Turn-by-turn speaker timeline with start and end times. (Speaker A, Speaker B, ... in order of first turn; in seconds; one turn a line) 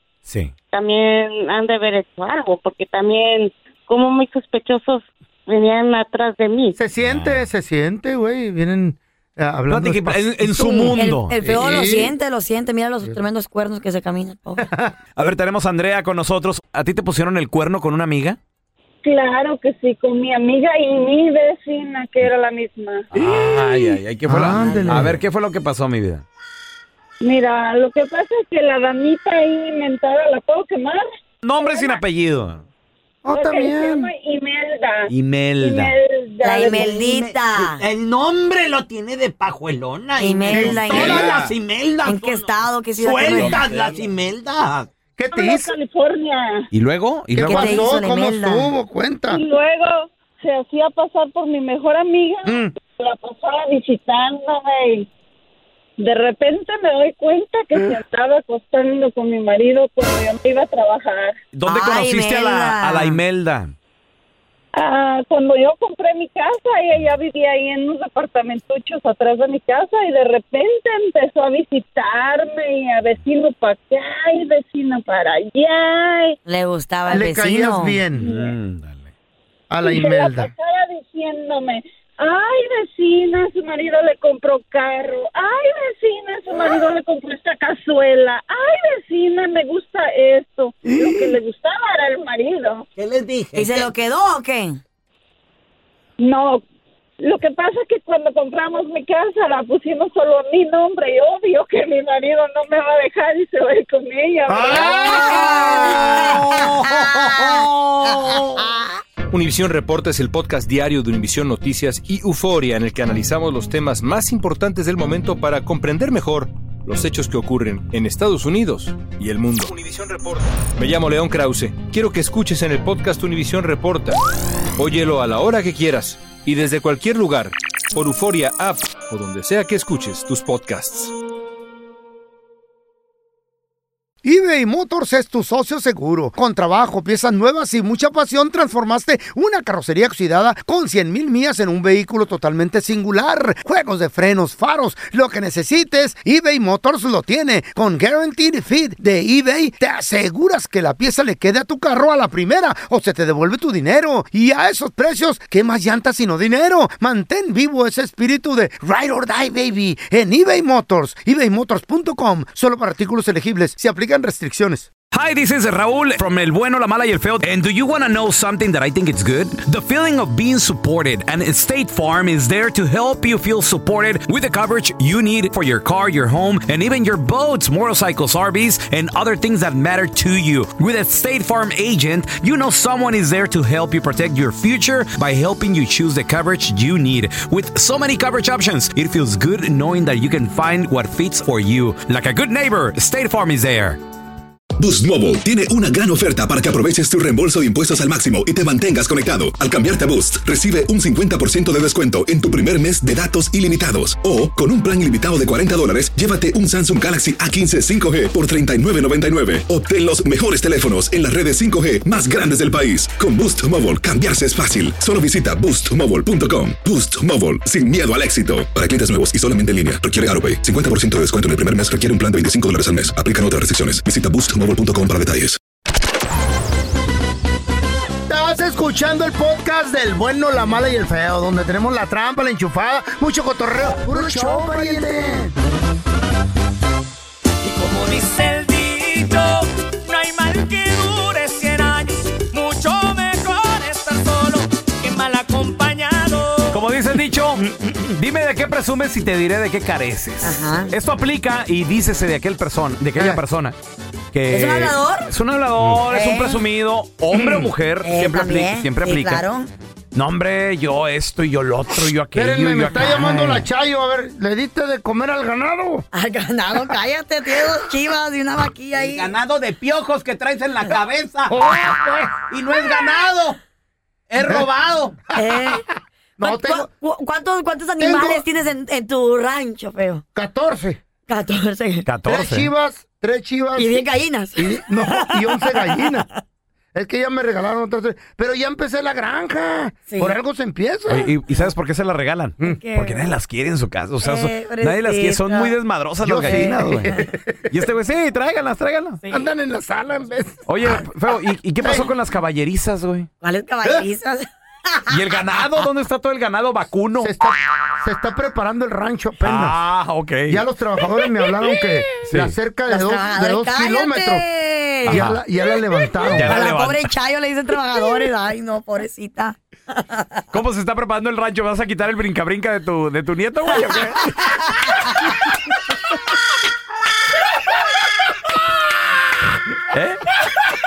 Speaker A: 0.3-0.5
Speaker B: 0.7-6.8
Speaker C: 6.8-12.2
Speaker A: 7.0-7.5
Speaker A: 9.7-11.3
Speaker D: 10.5-14.7
Speaker C: 14.6-14.9
Speaker A: 15.2-18.4
Speaker E: 19.0-23.1
Speaker A: 23.1-26.2
Speaker C: 23.2-25.2
Speaker D: 24.5-25.0
Speaker E: 27.2-31.1
Speaker A: 31.4-32.6
Speaker E: 31.6-32.0
Speaker C: 33.2-34.1
Speaker E: 33.3-37.1
Speaker A: 35.1-36.0
Speaker D: 36.4-37.9
Speaker F: 36.8-42.4
Speaker D: 40.2-41.3
Speaker A: 40.2-42.4
Speaker C: 40.5-41.3
Speaker D: 42.0-43.7
Speaker F: 43.0-44.9
Speaker A: 43.0-44.0
Speaker C: 45.2-45.7
Speaker E: 45.3-46.7
Speaker A: 46.7-47.9
Speaker C: 47.3-49.4
Speaker D: 47.4-48.7
Speaker E: 49.3-55.1
Speaker C: 52.5-52.7
Speaker E: 56.0-61.4
Speaker A: 61.5-63.7
Speaker D: 61.7-63.2
Speaker E: 64.8-76.4
Speaker D: 76.5-78.0
Speaker C: 77.1-78.3
Speaker A: 78.2-79.1
Speaker E: 78.2-78.5
Speaker C: 79.7-80.5
Speaker E: 79.8-92.9
Speaker C: 90.8-91.4
Speaker F: 93.0-93.9
Speaker D: 93.5-94.8
Speaker E: 96.2-96.6
Speaker E: 97.2-105.4
Speaker C: 104.5-107.1
Speaker A: 104.8-108.5
Speaker D: 105.0-108.4
Speaker G: 109.3-124.2
Speaker G: 124.8-131.1
Speaker C: 134.2-164.9
Speaker A: 165.1-194.0
Speaker H: 194.8-225.6
Speaker C: 228.3-235.6
Speaker I: 237.6-246.8
Speaker A: 246.7-253.8
Speaker D: 250.4-250.9
Speaker A: 254.3-259.5
Speaker D: 254.5-255.3
Speaker D: 256.1-256.6
Speaker C: 257.3-257.7
Speaker D: 258.0-259.7
Speaker A: 260.1-263.6
Speaker C: 262.3-266.1
Speaker D: 266.1-269.3
Speaker F: 269.0-271.4
Speaker A: 269.2-271.5
Speaker C: 271.5-272.4
Speaker A: 272.5-272.9
Speaker F: 272.5-273.6
Speaker F: 274.3-275.1
Speaker A: 274.4-274.8
Speaker D: 275.3-275.9
Speaker C: 276.4-276.9
Speaker D: 276.4-280.2
Speaker C: 278.0-278.4
Speaker C: 280.4-281.0
Speaker D: 281.3-282.1
Speaker A: 282.0-282.7
Speaker C: 282.2-286.3
Speaker D: 283.8-286.2
Speaker C: 286.9-291.4
Speaker D: 290.1-290.4
Speaker A: 291.1-299.2
Speaker D: 292.6-293.3
Speaker D: 294.2-295.8
Speaker C: 296.2-297.6
Speaker D: 296.4-297.3
Speaker C: 299.3-300.6
Speaker A: 300.7-303.3
Speaker C: 301.8-302.1
Speaker D: 303.4-305.1
Speaker A: 305.1-307.3
Speaker C: 307.2-309.8
Speaker A: 309.4-310.6
Speaker C: 310.5-314.4
Speaker A: 312.2-312.6
Speaker D: 312.9-315.3
Speaker C: 315.0-316.6
Speaker A: 315.1-315.4
Speaker A: 316.3-317.1
Speaker D: 316.4-320.4
Speaker A: 320.5-324.6
Speaker D: 323.7-324.7
Speaker A: 329.9-330.2